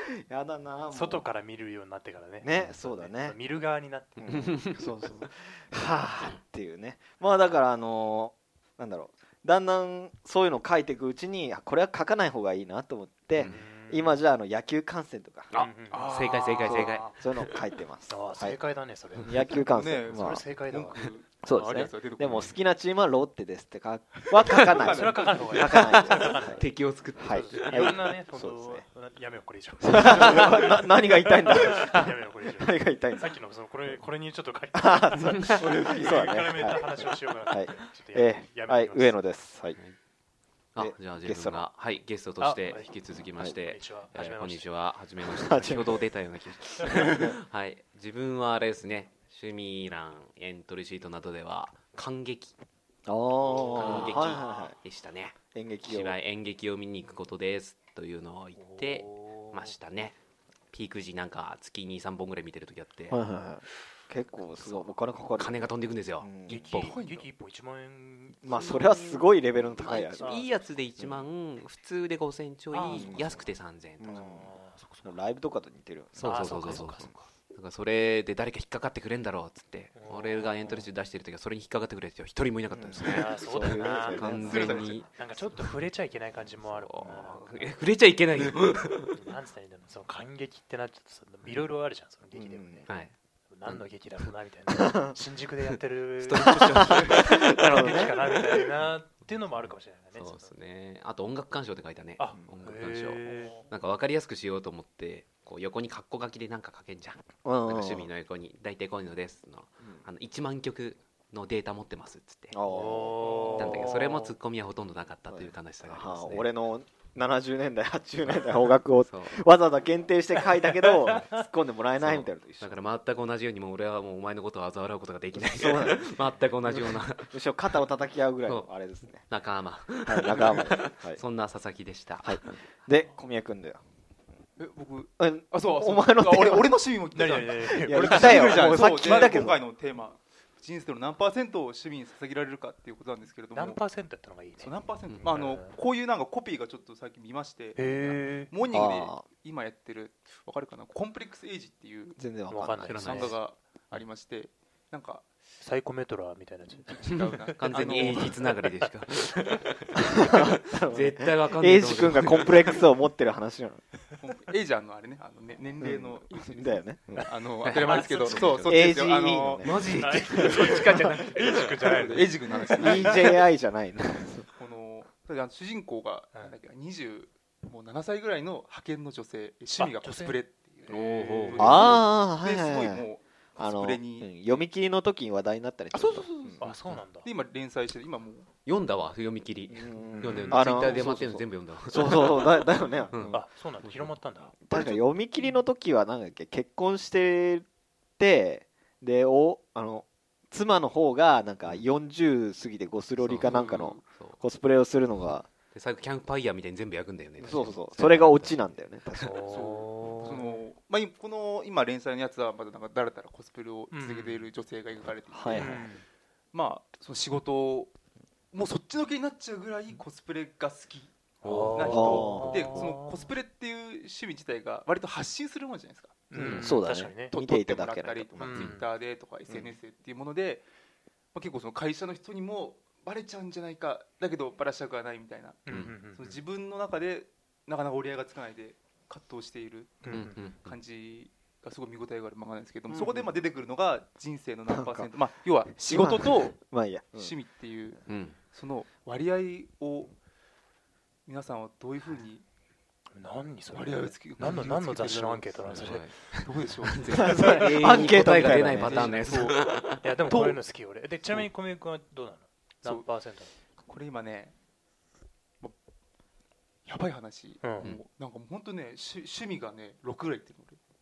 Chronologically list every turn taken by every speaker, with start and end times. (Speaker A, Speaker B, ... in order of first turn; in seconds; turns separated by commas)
Speaker A: 0.2-1.2, Speaker B: 0.9-4.5, Speaker A: 2.4-3.4, Speaker A: 4.2-15.5, Speaker C: 4.3-4.7, Speaker B: 13.4-14.2, Speaker C: 15.5-17.5, Speaker B: 15.6-16.1, Speaker D: 15.9-17.2, Speaker A: 16.7-18.6, Speaker B: 18.1-21.8, Speaker A: 19.2-20.5, Speaker D: 19.6-22.5, Speaker A: 21.4-26.7, Speaker C: 24.4-24.9, Speaker D: 24.7-25.8, Speaker B: 24.8-26.6, Speaker C: 25.8-28.0, Speaker A: 27.2-28.9, Speaker B: 27.2-39.2, Speaker A: 29.8-33.4, Speaker D: 30.1-30.5, Speaker A: 34.7-39.8, Speaker D: 35.6-36.5, Speaker C: 40.8-52.5, Speaker A: 40.8-41.7, Speaker B: 42.4-44.7, Speaker A: 45.3-46.0, Speaker A: 53.1-54.8, Speaker B: 53.5-54.3, Speaker C: 53.6-60.2, Speaker A: 55.5-56.2, Speaker B: 58.6-59.8, Speaker C: 60.7-63.2, Speaker A: 63.1-65.6, Speaker C: 64.5-67.0, Speaker A: 66.2-66.9, Speaker B: 66.5-69.3, Speaker D: 66.7-67.3, Speaker A: 68.4-70.4, Speaker C: 68.5-74.1, Speaker B: 70.2-70.5, Speaker A: 71.0-71.3, Speaker B: 72.7-73.3, Speaker A: 72.8-73.5, Speaker A: 74.0-77.0, Speaker B: 74.0-75.2, Speaker B: 76.2-77.2, Speaker C: 76.2-85.7, Speaker B: 80.0-80.8, Speaker A: 82.7-84.8, Speaker B: 83.0-87.8, Speaker D: 84.3-85.0, Speaker C: 86.7-89.1, Speaker B: 89.1-100.5, Speaker A: 92.3-93.0, Speaker C: 92.9-93.1, Speaker A: 94.7-95.2, Speaker C: 95.7-98.7, Speaker A: 96.5-98.3, Speaker C: 100.2-112.6, Speaker B: 102.2-103.6, Speaker A: 107.4-108.1, Speaker A: 109.8-110.1, Speaker A: 112.5-114.0, Speaker B: 112.7-114.3, Speaker D: 113.2-113.8, Speaker C: 113.6-116.5, Speaker A: 115.3-122.8, Speaker C: 118.3-119.4, Speaker C: 122.0-127.5, Speaker A: 125.3-129.3, Speaker C: 129.2-132.6, Speaker A: 130.0-131.2, Speaker A: 132.2-133.8, Speaker D: 134.6-143.8, Speaker A: 135.2-136.7, Speaker B: 137.1-139.5, Speaker A: 137.7-139.6, Speaker B: 143.5-145.8, Speaker D: 144.6-152.2, Speaker C: 145.1-145.3, Speaker B: 147.8-148.5, Speaker A: 148.7-149.2, Speaker A: 152.2-153.3, Speaker B: 152.5-153.3, Speaker C: 152.9-153.4, Speaker D: 153.0-155.3, Speaker B: 155.6-158.5, Speaker D: 156.8-158.5, Speaker C: 157.6-162.8, Speaker A: 160.1-163.8, Speaker D: 164.2-169.8, Speaker A: 165.8-167.3, Speaker C: 167.6-169.0, Speaker B: 167.8-168.6, Speaker A: 168.6-171.1, Speaker C: 169.6-172.2, Speaker B: 169.9-173.2, Speaker D: 171.8-173.3, Speaker A: 172.7-174.5, Speaker D: 174.6-184.7, Speaker B: 179.8-181.9, Speaker C: 180.9-182.1, Speaker A: 181.6-183.1, Speaker A: 183.6-186.6, Speaker D: 185.9-188.5, Speaker B: 186.6-187.3, Speaker C: 186.6-187.0, Speaker C: 188.7-194.1, Speaker A: 189.7-193.5, Speaker B: 190.2-191.0, Speaker B: 193.3-194.6, Speaker A: 194.7-197.7, Speaker D: 194.7-195.0, Speaker A: 198.2-205.5, Speaker C: 203.2-204.4, Speaker D: 203.4-204.0, Speaker C: 205.7-208.7, Speaker A: 207.4-209.4, Speaker B: 209.2-210.6, Speaker D: 209.5-215.9, Speaker B: 213.9-214.3, Speaker A: 215.3-215.9, Speaker B: 215.5-216.1, Speaker D: 216.5-217.9, Speaker D: 218.5-221.2, Speaker C: 221.4-222.3, Speaker B: 221.4-223.3, Speaker D: 221.7-226.3, Speaker A: 221.9-222.8, Speaker B: 226.3-227.3, Speaker C: 226.4-226.8, Speaker A: 226.4-228.6, Speaker D: 227.2-230.7, Speaker B: 228.4-228.8, Speaker A: 229.5-229.8, Speaker D: 231.3-246.6, Speaker B: 235.7-236.4, Speaker C: 235.7-235.9, Speaker B: 240.0-240.4, Speaker C: 240.1-240.8, Speaker A: 242.9-243.3, Speaker A: 244.7-245.1, Speaker A: 245.8-247.3, Speaker D: 247.2-250.1, Speaker C: 248.1-248.4, Speaker D: 251.3-252.4, Speaker B: 253.1-256.4, Speaker D: 253.7-259.6, Speaker C: 255.7-260.1, Speaker A: 257.2-259.2, Speaker B: 257.2-257.8, Speaker B: 260.0-263.5, Speaker D: 260.3-260.6, Speaker D: 263.8-264.5, Speaker D: 266.9-270.8, Speaker B: 267.6-267.9